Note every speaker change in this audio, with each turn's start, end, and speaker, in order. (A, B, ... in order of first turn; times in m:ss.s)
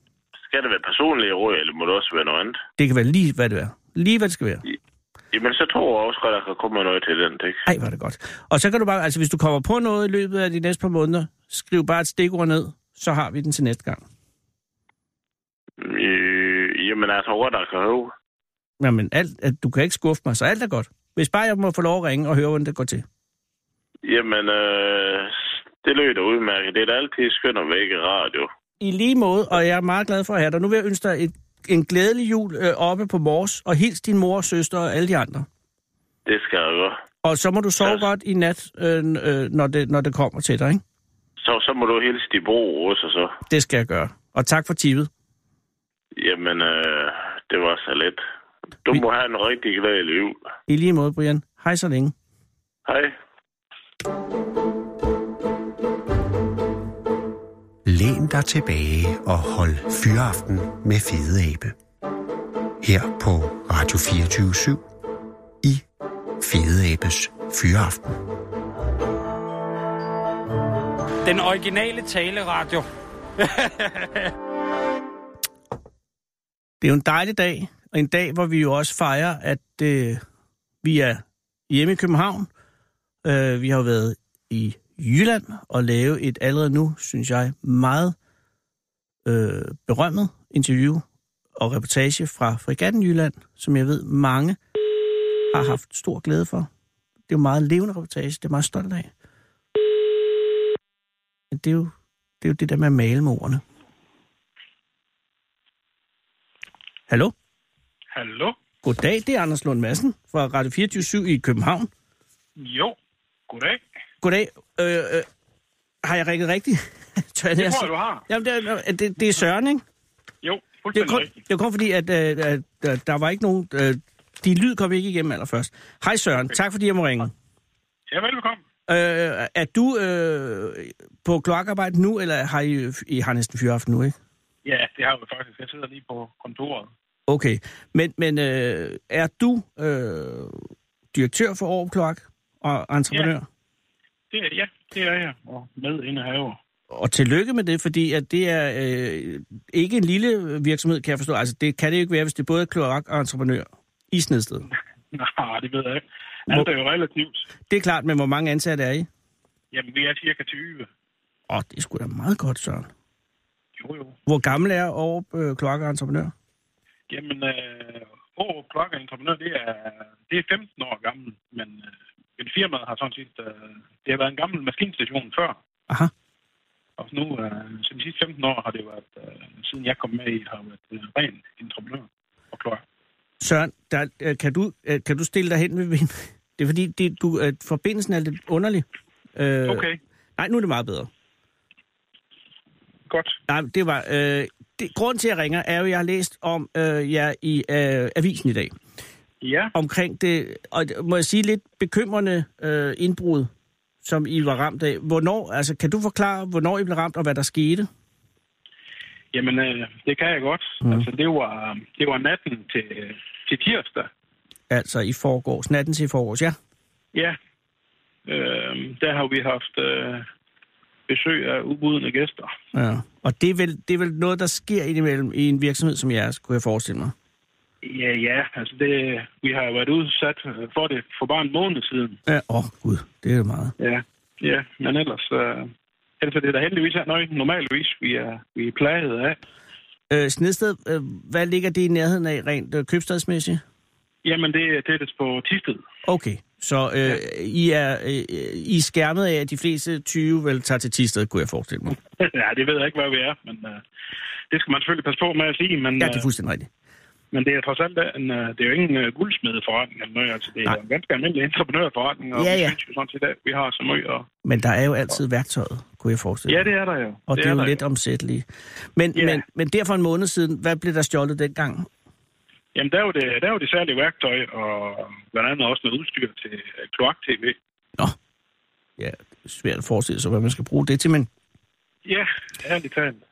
0:00.5-0:02.6 A
0:02.8-0:04.6 B
0:05.3-0:07.7 A
0:07.7-0:14.0 B
0:15.8-0:18.1 A
0:18.8-0:23.0 B
0:24.0-0:28.5 A
0:28.8-0:35.5 B
0:36.2-0:37.0 A
0:37.2-0:40.8 B
0:37.8-0:38.1 A
0:41.4-0:43.4 A
0:43.5-0:45.1 B
0:46.2-0:48.2 A
0:48.8-0:50.4 A
0:50.7-0:52.1 B
0:52.8-0:53.1 A
0:57.8-1:01.7 C
1:02.8-1:04.8 C
1:06.4-1:08.1 C
1:11.2-1:12.9 D
1:13.4-1:14.3 D
1:16.8-1:20.2 B
1:20.8-1:22.5 B
1:23.2-1:28.1 B
1:29.2-1:31.0 B
1:31.6-1:34.6 B
1:35.5-1:36.7 B
1:37.3-1:39.1 B
1:41.5-1:43.6 B
1:47.1-1:47.3 B
1:48.1-1:48.6 E
1:48.8-1:51.9 B
1:52.6-1:53.0 E
1:53.5-1:53.8 E
1:54.2-1:55.2 B
1:56.0-1:59.8 B
1:57.6-1:58.2 E
2:00.4-2:01.4 E
2:00.9-2:07.3 B
2:08.1-2:08.6 E
2:08.9-2:14.2 B
2:14.6-2:16.9 E
2:17.3-2:23.4 B
2:24.3-2:26.6 E
2:26.9-2:34.7 B
2:35.1-2:37.4 E
2:37.7-2:39.1 B
2:39.7-2:40.9 E
2:41.5-2:42.9 B
2:43.8-2:44.2 E
2:44.3-2:46.3 B
2:47.1-2:55.6 E
2:57.0-3:02.8 E
3:03.4-3:09.9 B
3:09.6-3:10.0 E
3:10.4-3:11.1 B
3:13.1-3:13.4 E
3:13.5-3:18.7 B
3:19.4-3:19.7 E
3:19.7-3:23.5 B
3:24.0-3:27.9 B
3:29.3-3:34.1 E
3:34.7-3:36.6 B
3:38.2-3:40.2 E
3:41.1-3:42.5 E
3:42.7-3:47.1 B
3:47.8-3:52.2 E
3:52.3-3:53.7 B
3:53.8-3:59.4 E
4:00.1-4:03.6 B
4:04.2-4:05.8 E
4:06.0-4:12.0 B
4:12.2-4:13.8 E
4:14.5-4:16.3 E
4:16.0-4:16.7 B
4:17.3-4:24.3 E
4:22.3-4:22.8 B
4:24.4-4:26.7 B
4:26.5-4:27.8 E
4:27.3-4:31.9 B
4:29.1-4:29.4 E
4:32.7-4:37.6 E
4:39.0-4:41.3 B
4:42.0-4:43.2 E